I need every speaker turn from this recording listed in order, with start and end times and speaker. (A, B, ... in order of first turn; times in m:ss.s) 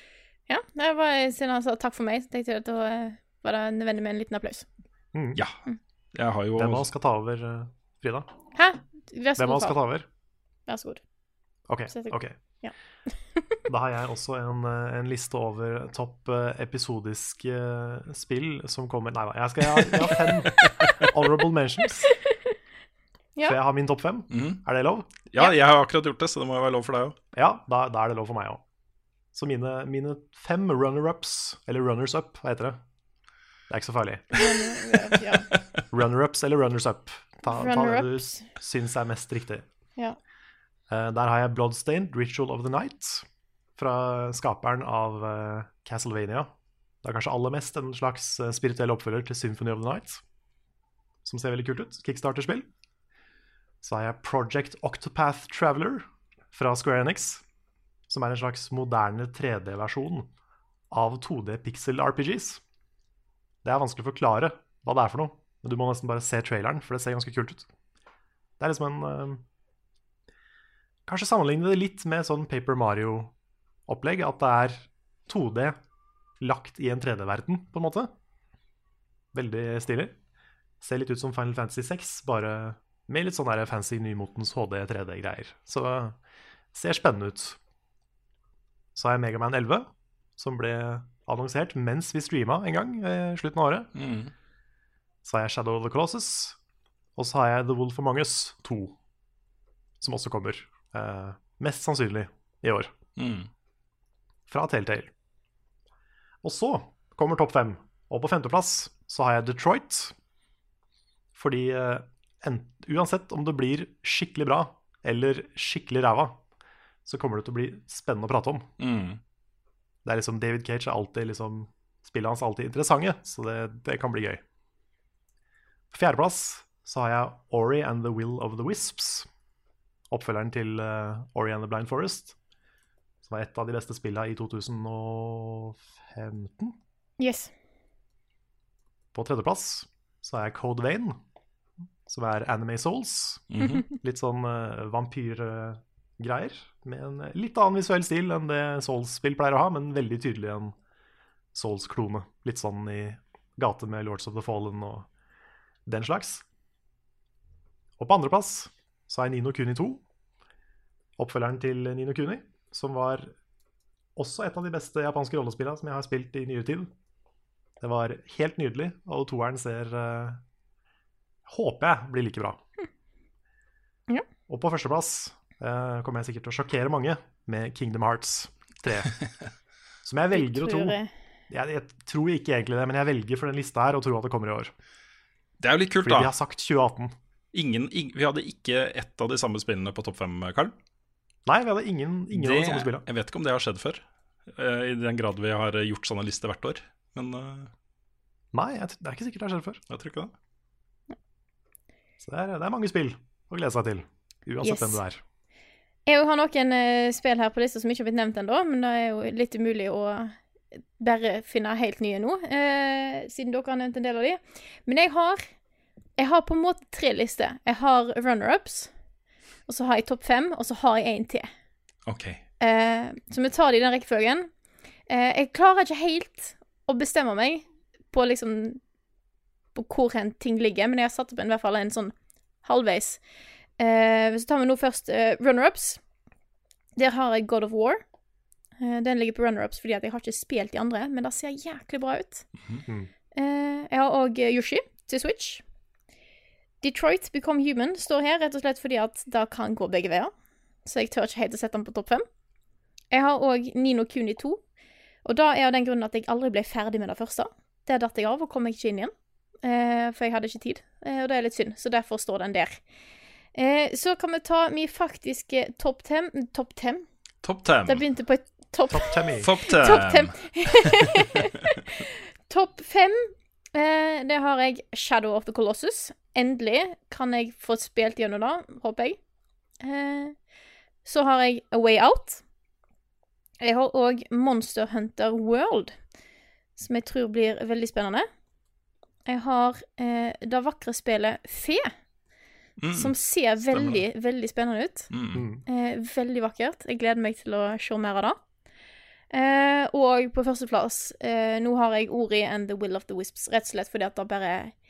0:00.5-0:04.7 A
0:05.1-0:05.4 B
0:06.2-0:06.9 C
0:06.6-0:08.3 B
0:08.6-0:09.8 A
0:09.4-0:10.1 B
0:10.7-0:11.0 A
0:11.7-0:12.4 B
0:11.9-0:12.7 A
0:13.7-0:22.1 B
0:20.6-0:21.0 C
0:23.4-0:25.1 B
0:24.3-0:24.6 C
0:25.3-0:27.2 C
0:27.3-0:28.6 B
0:29.3-0:32.8 B
0:33.7-0:34.6 B
0:34.4-0:35.5 A
0:35.9-0:39.7 B
0:37.5-0:38.5 A
0:40.9-0:43.3 B
0:43.8-0:46.5 B
0:47.0-0:50.2 B
0:51.2-0:52.7 B
0:53.8-0:57.4 B
0:58.1-1:00.3 B
1:00.9-1:02.6 B
1:03.6-1:07.7 B
1:08.6-1:09.4 B
1:11.1-1:13.3 B
1:13.9-1:15.8 B
1:16.4-1:18.1 B
1:19.3-1:20.2 B
1:20.8-1:26.2 B
1:26.7-1:27.6 B
1:29.0-1:33.9 B
1:34.0-1:34.3 C
1:35.2-1:36.6 B
1:37.2-1:39.0 B
1:40.0-1:42.9 B
1:43.2-1:43.5 C
1:44.5-1:45.1 B
1:46.4-1:50.2 B
1:51.4-1:56.4 B
1:57.0-1:58.7 B
1:58.8-1:59.2 C
2:00.0-2:04.4 B
2:05.9-2:09.3 B
2:10.1-2:12.4 B
2:13.2-2:16.8 B
2:17.2-2:17.5 A
2:19.1-2:21.2 B
2:22.1-2:30.8 B
2:23.5-2:23.8 C
2:31.5-2:35.1 B
2:35.9-2:36.4 B
2:38.0-2:40.0 B
2:41.2-2:43.3 B
2:44.2-2:46.9 B
2:47.8-2:50.4 B
2:51.5-2:52.6 B
2:54.5-2:59.1 B
3:00.0-3:01.0 B
3:00.3-3:01.1 A
3:01.5-3:04.7 B
3:05.6-3:06.3 C
3:06.0-3:07.2 B
3:07.5-3:10.7 C
3:11.5-3:13.0 B
3:12.3-3:17.7 C
3:18.5-3:19.8 B
3:19.9-3:20.3 C
3:22.2-3:25.2 B
3:24.6-3:25.0 A
3:26.1-3:30.4 A
3:31.0-3:35.5 A
3:36.2-3:38.9 A
3:39.7-3:41.5 A
3:42.1-3:42.4 C
3:42.6-3:44.5 A
3:45.1-3:48.8 A
3:49.8-3:52.1 A
3:52.6-3:53.2 A
3:53.8-3:56.0 A
3:57.0-3:58.0 A
3:58.8-4:02.5 A
4:03.4-4:05.6 A
4:06.8-4:10.3 A
4:10.8-4:12.2 A
4:13.1-4:14.6 A
4:15.2-4:19.1 A
4:19.6-4:22.8 A
4:23.6-4:27.1 A
4:27.4-4:28.0 C
4:27.9-4:39.2 A
4:28.9-4:29.5 B
4:29.4-4:30.3 C
4:39.8-4:40.4 A
4:41.0-4:42.4 A
4:43.6-4:46.0 A
4:46.8-4:48.3 A
4:49.3-4:51.9 A
4:52.8-4:53.1 C
4:52.9-4:55.1 A
4:53.7-4:54.0 C
4:55.1-4:55.5 C
4:55.3-4:55.6 B
4:55.7-4:58.4 A
4:59.3-5:04.8 A